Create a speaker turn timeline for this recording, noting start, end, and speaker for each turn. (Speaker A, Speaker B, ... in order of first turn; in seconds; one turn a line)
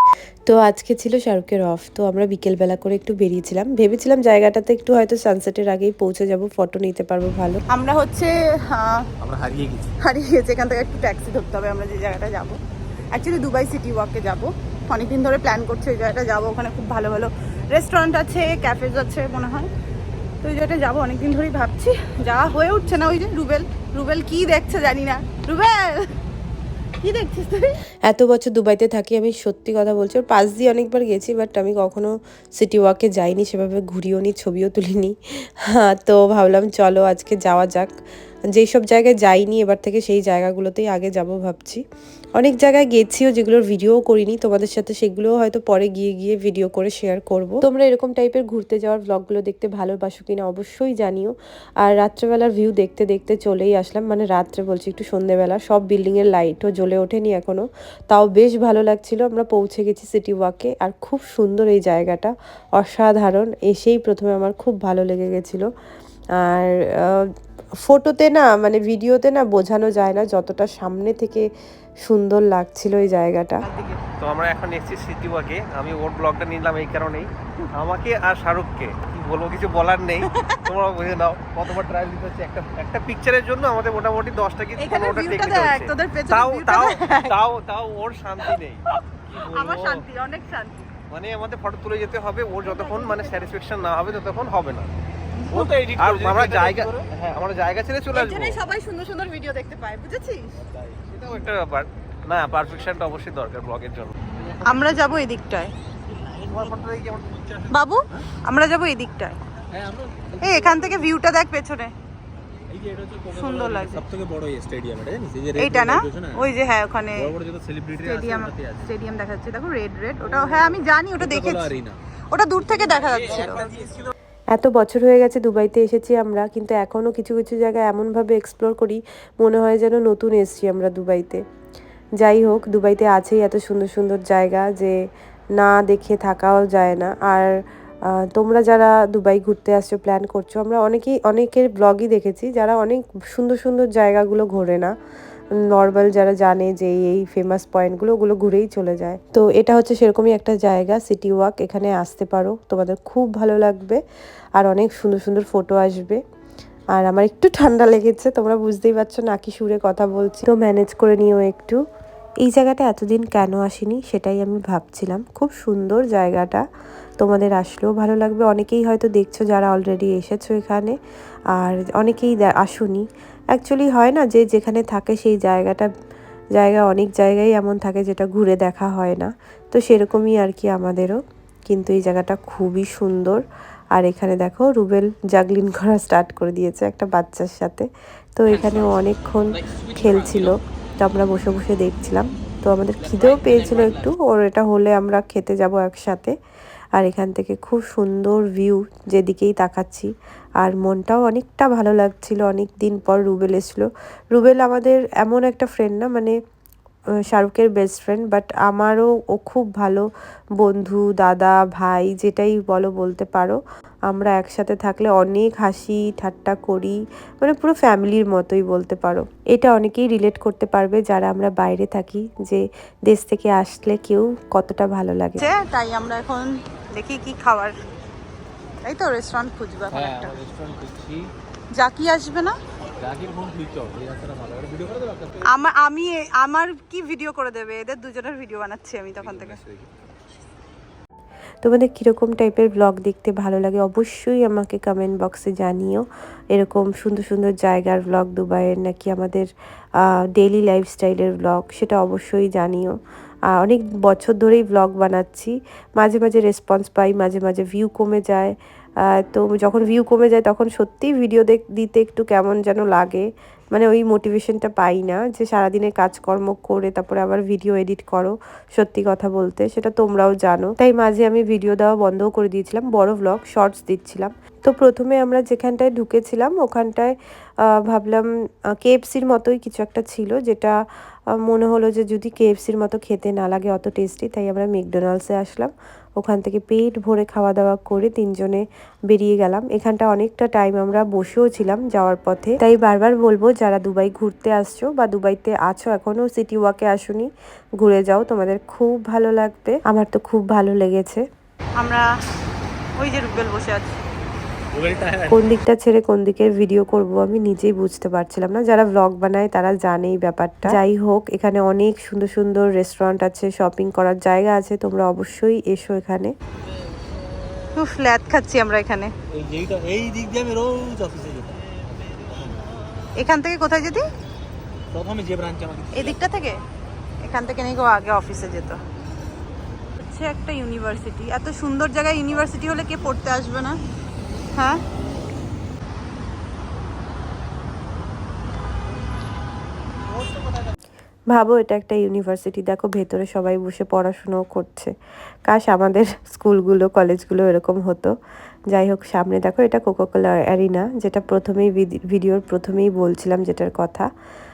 Speaker A: 0.5-7.6
Speaker B: 7.7-9.1
Speaker C: 9.2-9.9
Speaker B: 10.0-12.6
Speaker B: 13.1-19.7
Speaker B: 20.4-26.1
Speaker B: 27.0-27.8
Speaker A: 28.1-37.9
Speaker A: 38.5-41.8
Speaker A: 42.4-65.7
Speaker A: 66.4-67.2
Speaker A: 67.8-71.5
Speaker A: 72.0-73.6
Speaker B: 73.6-74.0
Speaker D: 74.2-90.0
Speaker B: 80.2-80.6
Speaker B: 84.8-87.4
Speaker B: 88.4-90.9
Speaker D: 91.1-94.9
Speaker B: 92.6-93.5
Speaker B: 95.4-95.8
Speaker C: 95.5-97.0
Speaker D: 95.9-98.6
Speaker B: 98.1-100.5
Speaker C: 100.6-101.0
Speaker D: 101.1-104.1
Speaker C: 104.4-104.8
Speaker B: 104.6-105.7
Speaker C: 106.1-106.8
Speaker D: 106.5-107.7
Speaker B: 107.7-109.4
Speaker C: 109.7-111.0
Speaker B: 110.4-111.9
Speaker C: 112.7-116.5
Speaker B: 113.3-114.0
Speaker B: 115.5-117.3
Speaker C: 117.2-118.9
Speaker B: 118.0-121.7
Speaker C: 120.2-122.0
Speaker B: 122.3-123.8
Speaker C: 122.6-124.1
Speaker A: 124.5-131.4
Speaker A: 132.2-134.9
Speaker A: 135.6-137.5
Speaker A: 138.2-144.9
Speaker A: 145.7-154.0
Speaker A: 154.6-156.2
Speaker A: 156.9-161.8
Speaker A: 162.4-166.6
Speaker A: 167.2-170.9
Speaker A: 171.5-175.9
Speaker A: 176.6-181.2
Speaker A: 181.7-183.4
Speaker A: 183.9-196.3
Speaker A: 196.9-200.1
Speaker A: 200.6-206.3
Speaker A: 207.3-210.1
Speaker A: 210.6-225.5
Speaker B: 225.4-227.7
Speaker B: 228.8-230.3
Speaker C: 229.9-231.3
Speaker B: 231.7-232.6
Speaker C: 233.0-235.5
Speaker B: 235.5-239.6
Speaker C: 239.2-239.9
Speaker A: 241.6-249.5
Speaker A: 250.0-252.9
Speaker A: 253.5-258.5
Speaker A: 259.1-277.1
Speaker A: 277.7-278.3
Speaker A: 278.8-280.8
Speaker A: 281.4-297.3
Speaker A: 297.8-301.2
Speaker B: 301.8-302.0
Speaker B: 303.0-304.0
Speaker C: 304.7-305.5
Speaker A: 305.3-316.3
Speaker B: 317.8-319.1
Speaker C: 319.3-322.6
Speaker B: 323.2-324.0
Speaker C: 324.9-326.2
Speaker B: 325.9-326.6
Speaker B: 327.2-328.8
Speaker B: 330.0-333.8
Speaker B: 334.5-334.8
Speaker A: 341.3-344.9
Speaker A: 345.5-348.1
Speaker A: 348.7-354.1